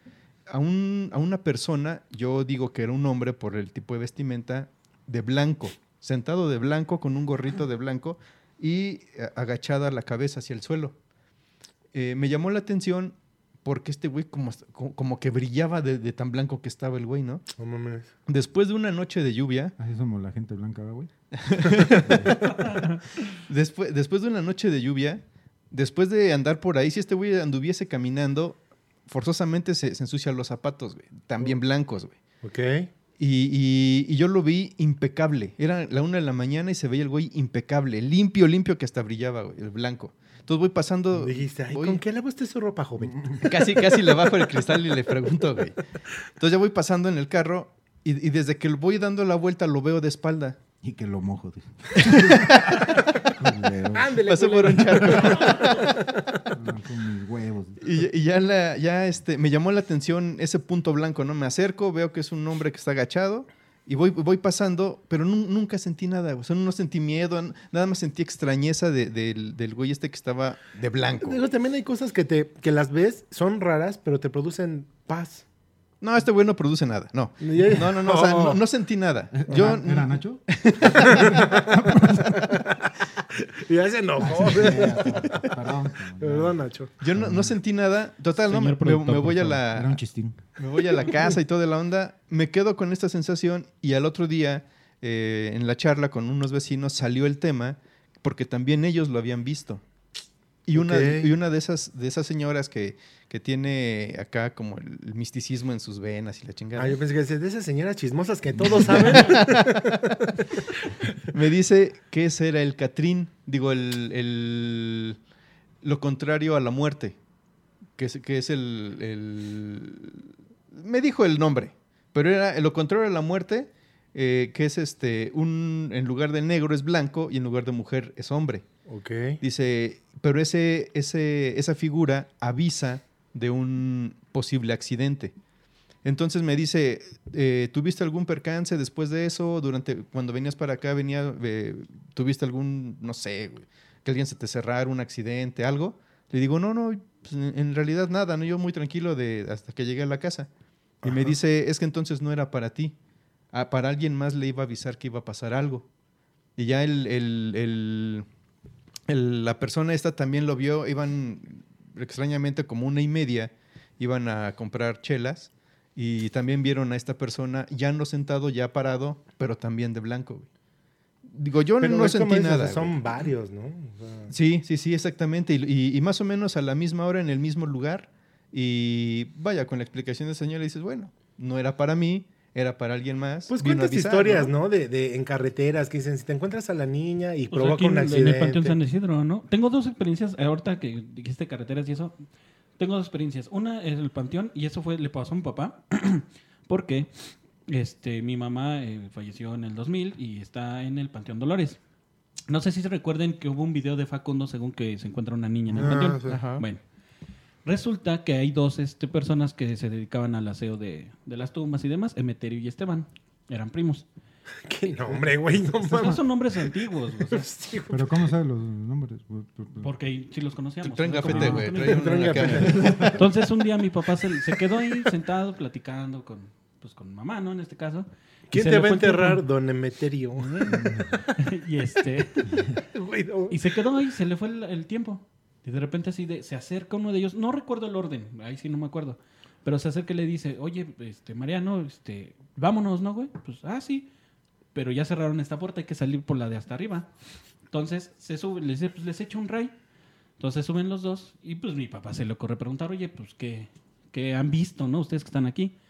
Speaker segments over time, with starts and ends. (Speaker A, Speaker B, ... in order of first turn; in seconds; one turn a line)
Speaker A: 0.5-10.9
Speaker A: 11.9-17.5
Speaker B: 17.6-18.1
Speaker A: 18.3-19.7
Speaker C: 19.8-21.1
Speaker A: 21.3-22.1
Speaker B: 21.9-22.7
Speaker C: 22.0-22.4
Speaker A: 23.2-32.2
Speaker B: 32.4-32.9
Speaker A: 33.2-42.0
Speaker B: 41.1-43.6
Speaker C: 43.0-43.4
Speaker A: 43.4-45.8
Speaker A: 46.4-50.6
Speaker C: 50.8-54.1
Speaker A: 52.0-53.2
Speaker B: 53.9-56.2
Speaker A: 54.2-56.1
Speaker C: 56.5-58.1
Speaker A: 57.8-71.4
Speaker B: 71.2-75.5
Speaker A: 76.0-81.5
Speaker B: 77.4-78.6
Speaker C: 79.3-82.6
Speaker B: 81.0-85.5
Speaker C: 84.2-86.6
Speaker B: 86.2-86.9
Speaker A: 87.0-90.0
Speaker C: 87.1-87.5
Speaker D: 88.5-89.6
Speaker C: 89.7-90.4
Speaker A: 90.6-99.8
Speaker A: 100.7-107.0
Speaker B: 100.7-101.3
Speaker B: 106.8-110.6
Speaker A: 108.6-109.8
Speaker A: 111.3-115.2
Speaker A: 115.8-117.2
Speaker A: 118.0-128.6
Speaker B: 128.9-129.4
Speaker A: 129.4-135.3
Speaker A: 136.0-150.5
Speaker A: 151.0-152.9
Speaker B: 151.0-151.3
Speaker A: 153.5-155.9
Speaker A: 156.6-158.3
Speaker A: 159.1-170.5
Speaker A: 171.3-173.3
Speaker B: 171.8-174.3
Speaker A: 174.3-184.5
Speaker B: 183.5-188.8
Speaker D: 187.5-192.2
Speaker D: 192.8-201.8
Speaker D: 202.5-206.8
Speaker B: 205.7-206.4
Speaker A: 205.8-206.7
Speaker D: 207.7-214.1
Speaker B: 214.6-216.3
Speaker D: 215.8-217.5
Speaker B: 217.2-218.3
Speaker C: 217.9-219.9
Speaker D: 219.8-229.4
Speaker A: 220.8-223.2
Speaker B: 221.3-223.2
Speaker B: 228.5-231.3
Speaker D: 230.4-232.8
Speaker C: 230.8-231.1
Speaker B: 232.9-233.6
Speaker D: 233.5-244.1
Speaker D: 244.7-247.1
Speaker D: 247.7-249.7
Speaker D: 250.4-255.7